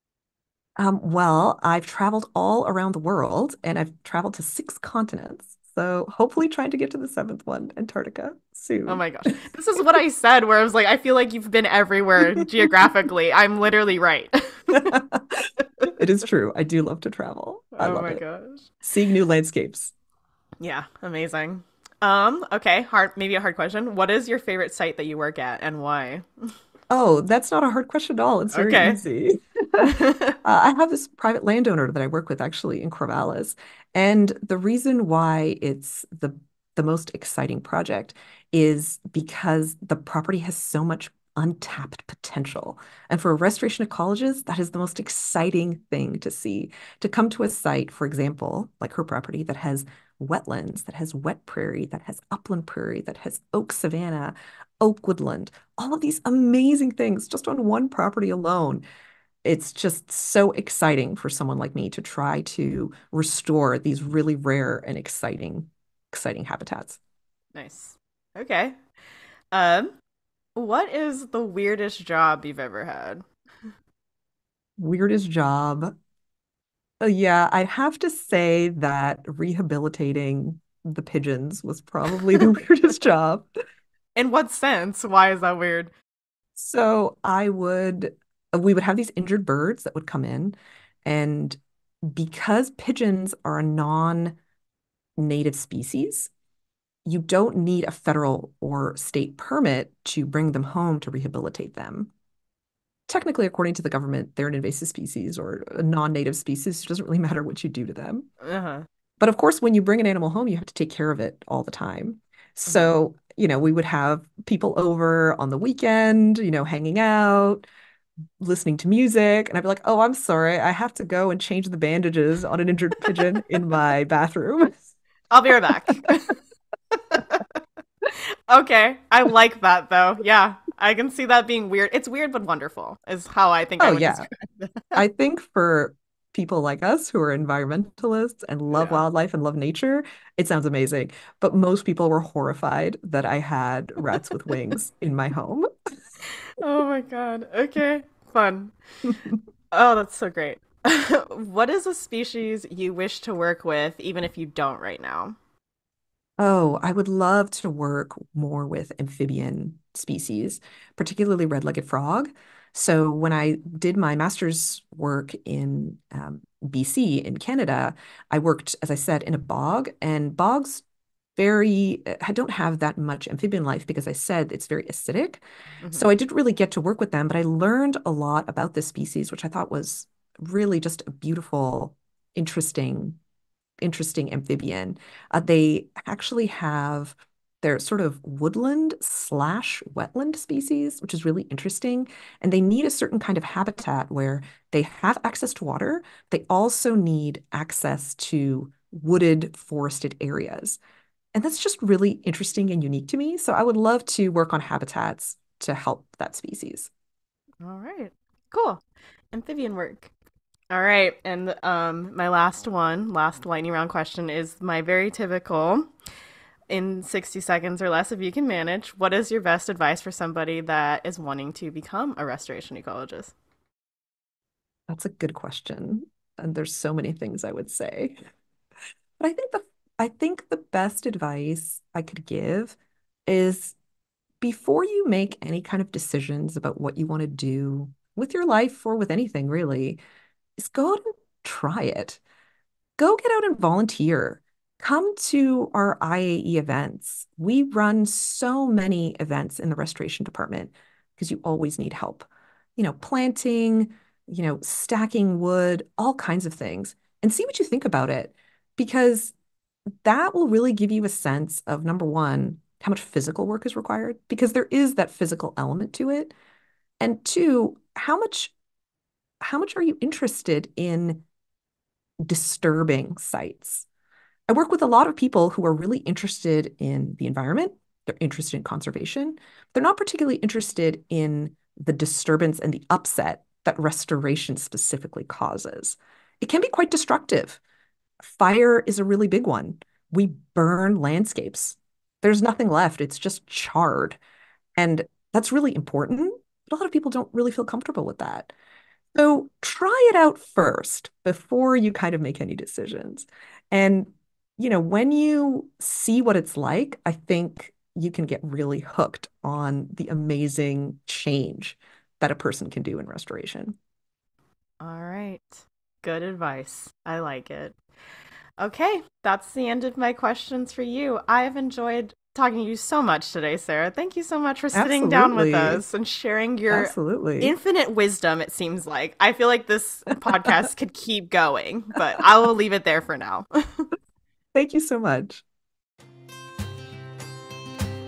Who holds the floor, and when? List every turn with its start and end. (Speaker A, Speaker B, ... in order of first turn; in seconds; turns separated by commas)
Speaker A: 0.8-9.0, Speaker B: 8.9-14.9, Speaker A: 14.7-18.2, Speaker B: 17.7-18.7, Speaker A: 18.8-19.9, Speaker B: 20.6-26.5, Speaker A: 26.9-58.8, Speaker B: 28.5-29.0, Speaker B: 29.8-30.4, Speaker A: 59.4-67.0, Speaker B: 67.5-68.8, Speaker B: 69.5-69.9, Speaker B: 70.5-73.2, Speaker A: 74.8-75.9, Speaker A: 77.0-83.5, Speaker B: 84.2-85.9, Speaker A: 86.5-94.4, Speaker A: 95.2-96.3, Speaker A: 97.0-102.1, Speaker A: 103.1-108.3, Speaker B: 108.4-108.8, Speaker A: 109.2-117.7, Speaker B: 112.7-112.9, Speaker A: 118.4-124.9, Speaker B: 125.3-126.4, Speaker B: 126.9-127.6, Speaker B: 128.1-135.0, Speaker A: 133.8-134.2, Speaker A: 134.9-145.7, Speaker B: 138.7-139.0, Speaker B: 146.4-148.7, Speaker A: 149.1-149.4, Speaker B: 149.7-155.3, Speaker A: 156.4-170.8, Speaker A: 171.4-183.2, Speaker A: 183.8-200.8, Speaker A: 201.3-206.9, Speaker B: 207.6-210.1, Speaker B: 210.7-215.9, Speaker B: 216.7-223.3, Speaker A: 224.9-228.2, Speaker A: 229.2-233.8, Speaker A: 234.4-240.0, Speaker A: 240.6-242.2, Speaker A: 243.0-259.3, Speaker A: 260.0-266.3, Speaker A: 267.0-268.5, Speaker A: 269.4-271.2, Speaker A: 272.2-273.9, Speaker A: 274.5-287.6, Speaker A: 288.2-294.2, Speaker A: 294.8-298.5, Speaker A: 299.1-313.7, Speaker B: 314.8-317.8, Speaker B: 318.6-333.9, Speaker A: 324.7-325.8, Speaker A: 326.7-327.5, Speaker A: 330.3-330.6, Speaker A: 334.5-335.4